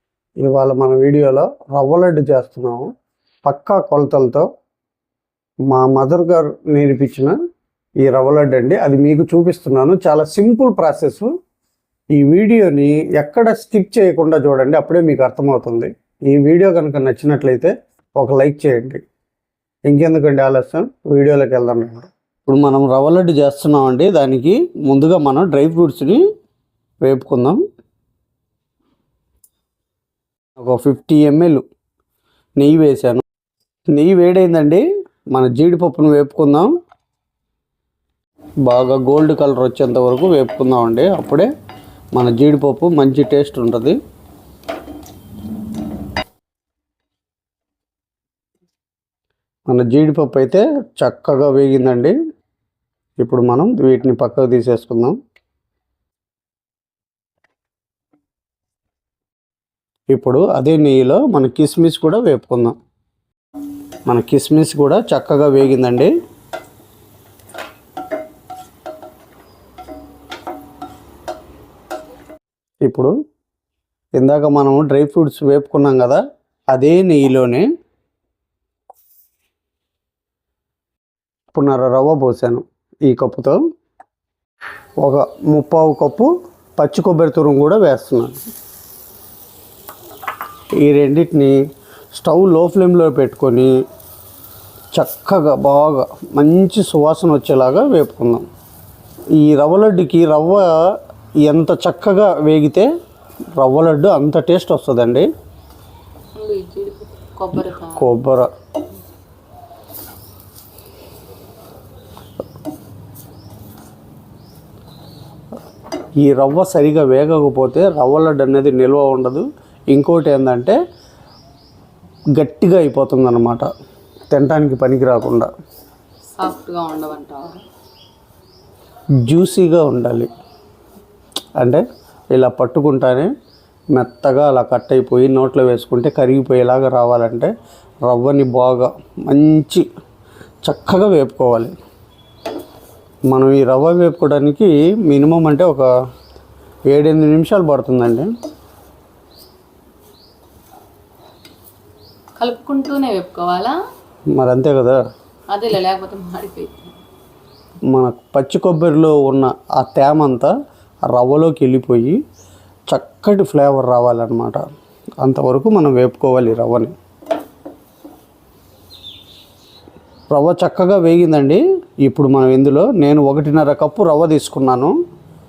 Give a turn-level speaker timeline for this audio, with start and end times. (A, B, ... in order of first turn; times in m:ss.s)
0:00.4-0:02.9 A
0:03.4-0:04.5 A
0:05.7-0:07.3 A
0:08.0-0:11.3 A
0:12.2-0:19.0 A
0:19.9-0:26.2 A
0:27.0-0:27.6 A
0:30.6-0:31.6 A
0:32.6-0:33.2 A
0:33.9-0:36.7 A
0:38.6-0:41.5 A
0:42.1-0:44.0 A
0:49.7-0:52.1 A
0:53.2-0:55.2 A
1:00.1-1:02.8 A
1:04.1-1:06.1 A
1:12.8-1:13.1 A
1:14.2-1:16.2 A
1:16.7-1:17.6 A
1:21.5-1:23.6 A
1:25.0-1:28.3 A
1:30.8-1:31.5 A
1:32.1-1:33.7 A
1:34.9-1:38.4 A
1:39.4-1:40.7 A
1:41.4-1:42.9 A
1:43.6-1:45.3 A
1:46.3-1:48.1 B
1:48.0-1:48.5 A
1:56.2-2:00.8 A
2:02.4-2:03.7 A
2:04.3-2:05.5 A
2:06.4-2:07.6 B
2:09.3-2:10.3 A
2:12.3-2:13.3 A
2:13.9-2:17.5 A
2:18.1-2:19.8 A
2:20.6-2:21.7 A
2:23.3-2:25.9 A
2:26.9-2:28.3 A
2:32.4-2:33.8 B
2:34.3-2:35.0 A
2:35.5-2:37.0 B
2:37.9-2:40.5 A
2:41.1-2:42.2 A
2:42.9-2:44.6 A
2:45.2-2:46.9 A
2:50.3-2:54.9 A